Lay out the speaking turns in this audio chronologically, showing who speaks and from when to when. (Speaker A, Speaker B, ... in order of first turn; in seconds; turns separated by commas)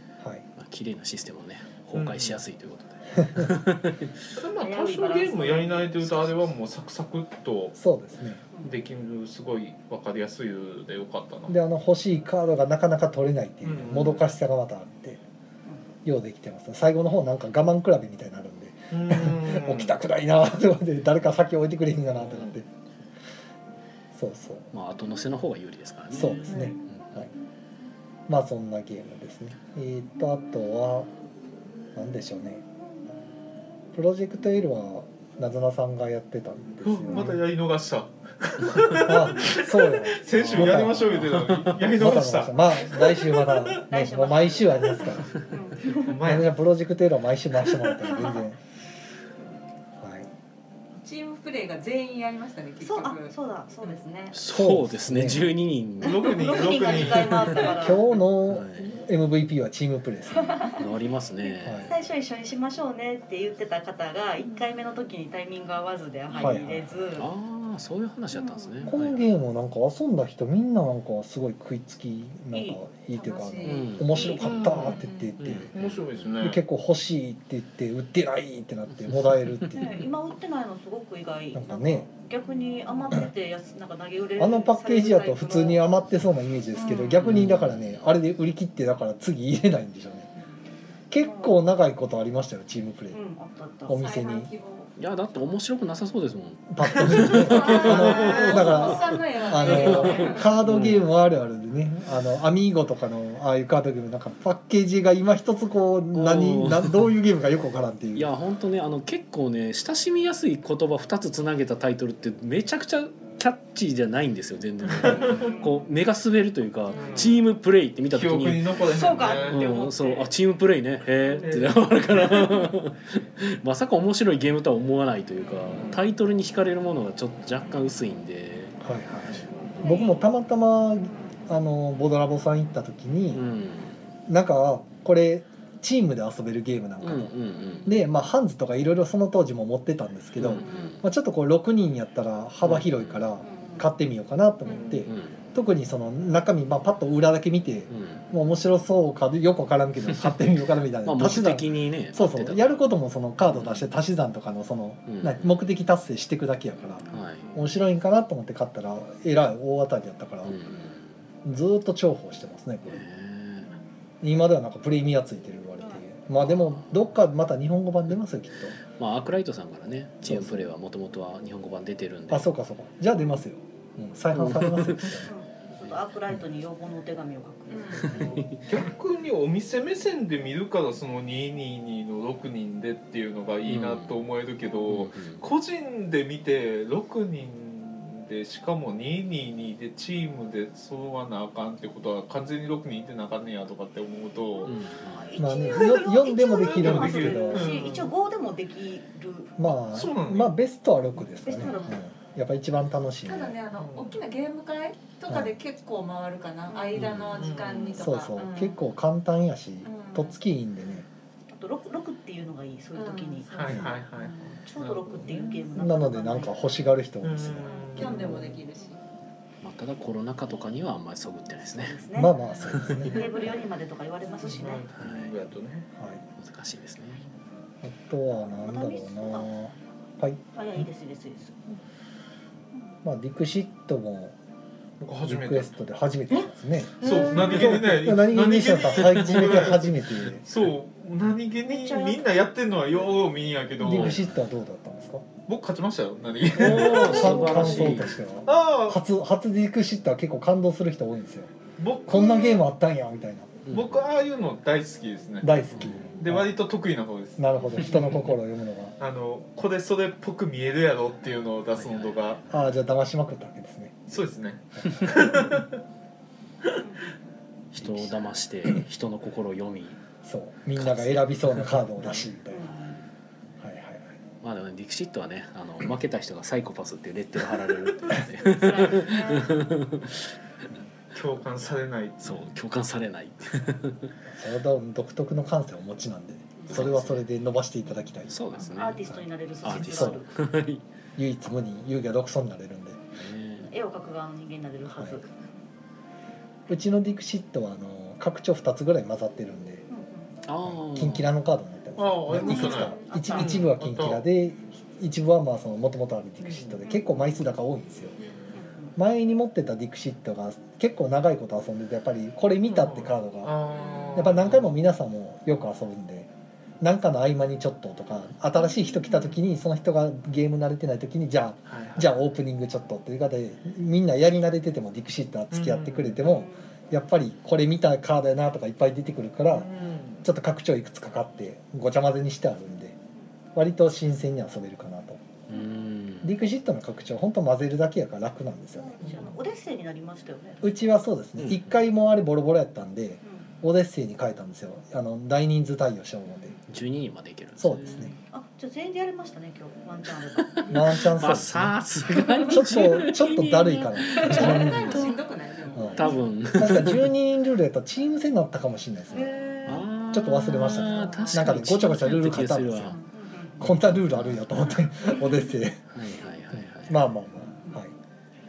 Speaker A: 0.2-0.5, Speaker B: 0.6-4.3, Speaker C: 1.9-2.4, Speaker A: 3.2-3.5, Speaker C: 4.3-7.8, Speaker D: 4.6-6.1, Speaker A: 7.8-8.4, Speaker C: 8.6-11.6, Speaker A: 11.5-15.2, Speaker C: 13.6-14.2, Speaker A: 16.1-22.7, Speaker C: 18.9-19.9, Speaker A: 24.1-24.7, Speaker B: 24.7-27.2, Speaker A: 26.1-27.3, Speaker C: 26.5-26.8, Speaker A: 28.3-31.1, Speaker A: 31.9-32.6, Speaker A: 33.9-37.4, Speaker C: 36.8-43.9, Speaker D: 37.1-37.4, Speaker A: 39.0-41.4, Speaker B: 40.6-41.8, Speaker A: 41.9-45.3, Speaker D: 43.9-46.2, Speaker C: 45.9-46.5, Speaker A: 46.2-48.6, Speaker D: 48.1-48.4, Speaker A: 50.0-50.3, Speaker E: 51.0-53.9, Speaker D: 52.8-54.4, Speaker B: 54.3-57.8, Speaker A: 54.5-55.5, Speaker C: 56.0-57.8, Speaker D: 56.1-58.0, Speaker A: 57.8-60.7, Speaker B: 58.5-58.9, Speaker D: 60.3-60.8, Speaker B: 60.7-62.0, Speaker A: 61.6-61.9, Speaker D: 61.9-67.3, Speaker A: 66.4-67.0, Speaker B: 67.2-69.4, Speaker D: 68.3-68.9, Speaker A: 68.8-75.7, Speaker D: 72.5-72.8, Speaker E: 73.1-75.3, Speaker B: 73.6-74.3, Speaker C: 74.3-75.0, Speaker B: 75.4-76.1, Speaker C: 75.7-76.6, Speaker A: 76.4-80.1, Speaker B: 79.1-79.7, Speaker D: 79.8-85.8, Speaker A: 81.5-82.1, Speaker A: 84.4-90.3, Speaker E: 86.7-87.2, Speaker B: 87.2-88.1, Speaker A: 91.1-93.2, Speaker D: 91.1-91.6, Speaker D: 93.1-94.0, Speaker A: 93.9-94.5, Speaker E: 93.9-94.9, Speaker B: 95.0-98.9, Speaker A: 96.7-108.3, Speaker E: 97.2-100.6, Speaker D: 97.5-97.9, Speaker C: 97.6-98.7, Speaker B: 99.6-101.0, Speaker B: 106.1-107.1, Speaker B: 108.2-118.8, Speaker C: 114.9-115.5, Speaker D: 115.1-115.9, Speaker C: 116.9-117.4, Speaker C: 118.1-119.9, Speaker D: 118.9-120.3, Speaker B: 119.3-128.8, Speaker C: 121.4-121.9, Speaker A: 128.8-133.4, Speaker D: 129.8-130.3, Speaker B: 133.3-134.0, Speaker A: 134.3-160.6, Speaker B: 137.0-137.9, Speaker B: 140.4-141.0, Speaker B: 142.6-143.2, Speaker D: 143.5-143.8, Speaker B: 145.0-145.4, Speaker B: 147.9-148.3, Speaker B: 151.0-152.8, Speaker B: 153.4-153.9, Speaker B: 155.1-155.6, Speaker B: 157.1-157.6, Speaker B: 160.4-161.2, Speaker A: 161.4-163.0, Speaker B: 162.8-163.7, Speaker A: 164.2-168.8, Speaker B: 166.4-167.1, Speaker B: 168.9-172.5, Speaker A: 170.2-170.7, Speaker A: 172.3-175.3, Speaker B: 174.3-175.2, Speaker D: 175.2-178.4, Speaker E: 177.7-178.2, Speaker B: 178.1-178.7, Speaker C: 178.5-194.8, Speaker B: 183.7-184.2, Speaker B: 184.9-185.5, Speaker B: 194.6-195.4, Speaker D: 195.1-199.6, Speaker A: 195.4-197.8, Speaker C: 195.6-198.1, Speaker A: 199.6-203.6, Speaker C: 199.9-200.5, Speaker D: 201.4-202.0, Speaker E: 201.5-202.0, Speaker E: 203.2-208.8, Speaker C: 203.8-204.2, Speaker A: 205.3-205.5, Speaker D: 206.7-207.1, Speaker B: 207.0-207.5, Speaker C: 207.1-208.0, Speaker A: 207.9-211.1, Speaker E: 209.8-210.3, Speaker D: 211.5-216.5, Speaker E: 212.9-214.0, Speaker C: 213.5-215.7, Speaker A: 215.8-218.6, Speaker C: 217.2-218.3, Speaker E: 217.9-219.0, Speaker D: 218.3-218.8, Speaker B: 219.6-222.0, Speaker D: 221.7-222.4, Speaker A: 222.1-223.2, Speaker B: 222.6-223.2, Speaker D: 223.1-224.9, Speaker C: 224.4-225.9, Speaker B: 224.9-225.4, Speaker A: 225.9-226.2, Speaker B: 226.4-227.2, Speaker A: 227.8-230.9, Speaker D: 228.5-229.5, Speaker D: 230.6-231.6, Speaker A: 233.0-234.3, Speaker C: 235.0-235.8, Speaker A: 235.2-240.4, Speaker C: 237.0-244.3, Speaker D: 241.6-242.3, Speaker A: 243.8-245.3, Speaker B: 243.8-244.3, Speaker C: 245.5-247.7, Speaker B: 246.5-248.2, Speaker A: 246.7-251.5, Speaker C: 248.4-249.0, Speaker C: 251.8-252.4, Speaker A: 252.1-253.6, Speaker B: 253.7-254.0, Speaker C: 253.7-258.0, Speaker A: 255.4-256.5, Speaker B: 255.7-256.2, Speaker A: 257.4-258.9, Speaker C: 259.0-262.4, Speaker B: 261.8-262.6, Speaker A: 262.5-264.0, Speaker C: 264.1-265.8, Speaker A: 264.8-265.5, Speaker D: 266.8-267.2, Speaker B: 267.7-270.0, Speaker A: 267.8-268.8, Speaker A: 270.2-272.7, Speaker B: 270.8-272.3, Speaker D: 272.5-272.9, Speaker A: 273.6-274.1, Speaker B: 274.4-280.3, Speaker D: 278.4-279.6, Speaker C: 281.1-282.4, Speaker B: 282.2-284.1, Speaker A: 284.3-288.4, Speaker B: 286.7-287.2, Speaker B: 288.3-289.1, Speaker D: 288.6-290.3, Speaker A: 289.1-290.2, Speaker B: 289.6-290.8, Speaker A: 291.2-293.0, Speaker B: 293.2-293.7, Speaker D: 293.7-295.3, Speaker A: 294.9-295.2, Speaker A: 296.7-299.9, Speaker D: 299.9-300.3, Speaker B: 300.4-301.3, Speaker A: 300.6-308.1, Speaker C: 302.0-304.2, Speaker D: 302.4-303.5, Speaker E: 302.6-303.1, Speaker C: 306.4-306.8, Speaker D: 308.5-308.9, Speaker A: 309.0-313.6, Speaker C: 312.7-314.7, Speaker E: 313.7-314.3, Speaker A: 314.1-316.3, Speaker A: 316.8-329.7, Speaker C: 321.7-322.1, Speaker C: 325.5-326.2, Speaker D: 326.3-326.6, Speaker C: 329.5-330.3, Speaker A: 330.2-333.0, Speaker A: 333.5-335.2, Speaker B: 335.5-336.4, Speaker A: 336.2-339.3, Speaker D: 338.8-340.7, Speaker A: 340.6-346.6, Speaker B: 346.7-348.1, Speaker A: 347.6-348.1, Speaker D: 348.1-351.0, Speaker B: 350.4-355.1, Speaker A: 350.7-355.1, Speaker E: 354.1-356.2, Speaker D: 354.3-355.2, Speaker A: 355.7-359.3, Speaker D: 355.9-356.1, Speaker B: 356.0-357.1, Speaker D: 359.1-359.9, Speaker B: 359.7-363.0, Speaker A: 360.1-363.0, Speaker D: 360.9-361.3, Speaker D: 363.1-363.7, Speaker A: 363.6-365.9, Speaker B: 363.7-364.5, Speaker B: 365.9-367.0, Speaker A: 366.8-367.9